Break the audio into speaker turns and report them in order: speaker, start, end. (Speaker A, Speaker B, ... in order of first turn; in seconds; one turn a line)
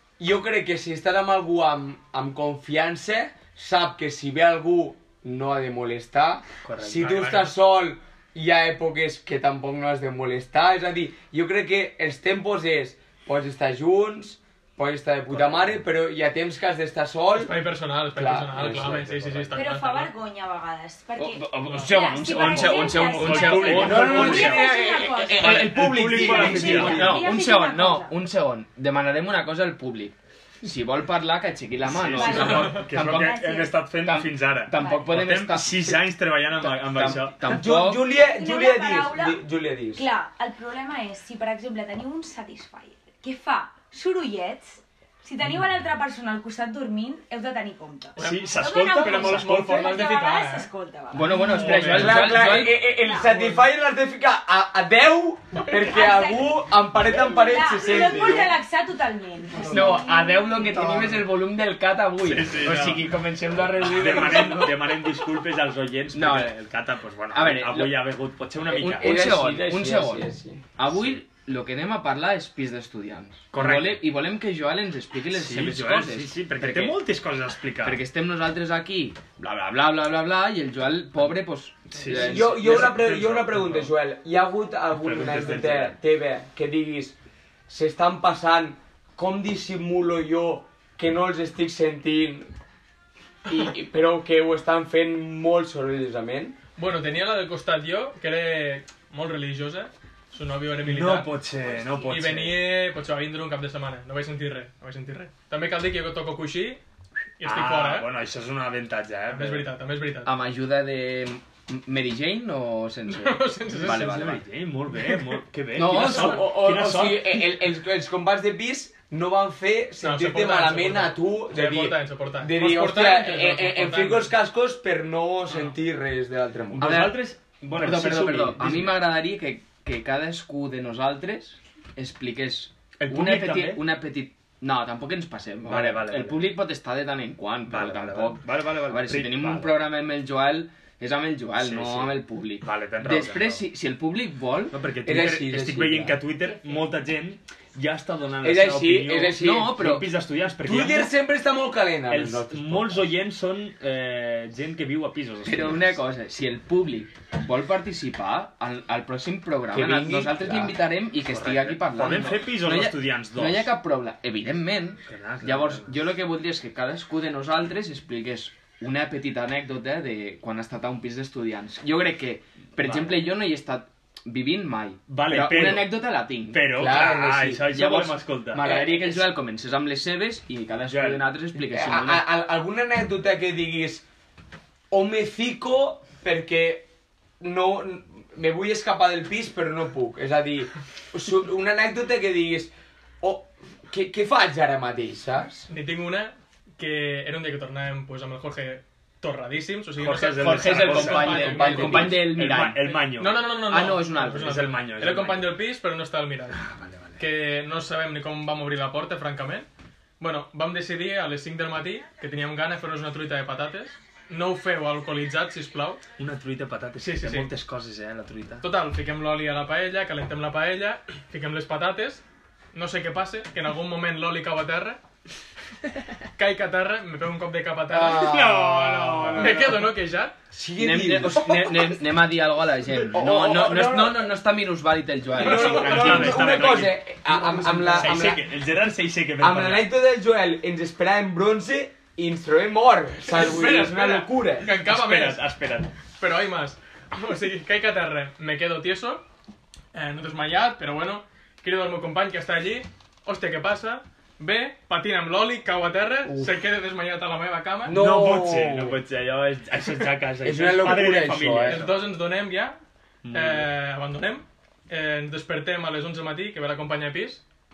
Speaker A: 0.2-17.5
Speaker B: 6.6-7.3
Speaker C: 7.0-7.6
Speaker B: 15.3-15.8
Speaker C: 17.4-20.1
Speaker A: 18.1-18.9
Speaker B: 18.6-19.5
Speaker D: 18.6-18.9
Speaker E: 19.5-28.1
Speaker D: 21.2-24.6
Speaker B: 22.1-24.7
Speaker A: 23.7-27.2
Speaker B: 25.4-27.4
Speaker D: 25.8-36.0
Speaker B: 31.8-37.6
Speaker E: 32.1-33.8
Speaker E: 34.8-35.2
Speaker D: 36.6-38.0
Speaker A: 37.5-40.0
Speaker E: 38.2-39.4
Speaker E: 40.0-51.4
Speaker C: 48.2-50.7
Speaker B: 48.2-50.1
Speaker D: 51.1-52.9
Speaker C: 51.3-52.3
Speaker A: 51.7-58.6
Speaker B: 51.8-52.1
Speaker E: 52.2-53.5
Speaker E: 55.7-61.0
Speaker D: 59.7-64.9
Speaker B: 62.2-69.3
Speaker C: 62.7-63.0
Speaker A: 64.1-64.7
Speaker D: 66.1-66.5
Speaker D: 67.3-68.1
Speaker A: 68.7-70.6
Speaker D: 68.8-77.0
Speaker B: 73.5-74.0
Speaker B: 75.3-78.0
Speaker D: 77.8-83.0
Speaker B: 81.9-83.9
Speaker A: 82.1-87.2
Speaker B: 85.0-86.0
Speaker A: 87.7-92.5
Speaker A: 93.5-96.6
Speaker C: 96.8-101.4
Speaker B: 100.8-102.6
Speaker E: 101.7-102.1
Speaker C: 102.1-106.8
Speaker C: 107.4-108.1
Speaker B: 107.4-109.7
Speaker C: 109.3-110.3
Speaker D: 110.2-114.4
Speaker C: 113.1-114.1
Speaker B: 113.7-117.6
Speaker D: 115.7-116.6
Speaker A: 116.0-126.9
Speaker C: 120.0-124.3
Speaker B: 126.7-129.0
Speaker D: 126.8-127.2
Speaker D: 127.8-144.8
Speaker B: 133.0-133.8
Speaker B: 135.7-136.4
Speaker B: 137.7-139.8
Speaker B: 141.6-143.7
Speaker B: 144.7-151.1
Speaker A: 145.1-146.2
Speaker E: 146.4-146.9
Speaker A: 148.4-149.7
Speaker D: 149.4-150.1
Speaker A: 150.7-153.1
Speaker B: 152.1-156.0
Speaker D: 155.4-176.6
Speaker A: 159.7-160.7
Speaker B: 161.3-163.7
Speaker B: 165.1-165.9
Speaker B: 172.8-173.2
Speaker B: 175.1-178.9
Speaker A: 176.7-177.7
Speaker D: 177.7-182.3
Speaker A: 178.6-179.2
Speaker B: 180.9-181.2
Speaker A: 181.6-184.1
Speaker A: 184.9-186.9
Speaker A: 187.4-195.7
Speaker C: 195.7-202.4
Speaker B: 200.0-203.4
Speaker D: 200.4-203.0
Speaker A: 201.4-202.0
Speaker C: 203.2-206.6
Speaker D: 203.7-204.6
Speaker B: 204.4-205.5
Speaker B: 206.6-207.2
Speaker C: 207.2-209.7
Speaker C: 210.2-216.0
Speaker B: 216.2-218.7
Speaker C: 217.0-217.5
Speaker C: 218.6-225.0
Speaker C: 226.3-228.4
Speaker A: 227.9-229.6
Speaker B: 228.1-229.9
Speaker D: 228.3-229.6
Speaker C: 229.4-230.3
Speaker A: 230.5-231.9
Speaker D: 230.8-236.5
Speaker A: 233.1-234.3
Speaker A: 235.4-238.5
Speaker B: 235.4-239.9
Speaker C: 235.5-236.4
Speaker A: 239.4-244.7
Speaker C: 243.2-245.4
Speaker B: 244.8-245.9
Speaker C: 246.2-249.2
Speaker C: 249.9-258.0
Speaker A: 256.3-256.6
Speaker A: 257.9-259.0
Speaker B: 257.9-262.0
Speaker A: 260.4-261.9
Speaker C: 261.7-262.8
Speaker B: 263.2-263.7
Speaker C: 263.3-267.4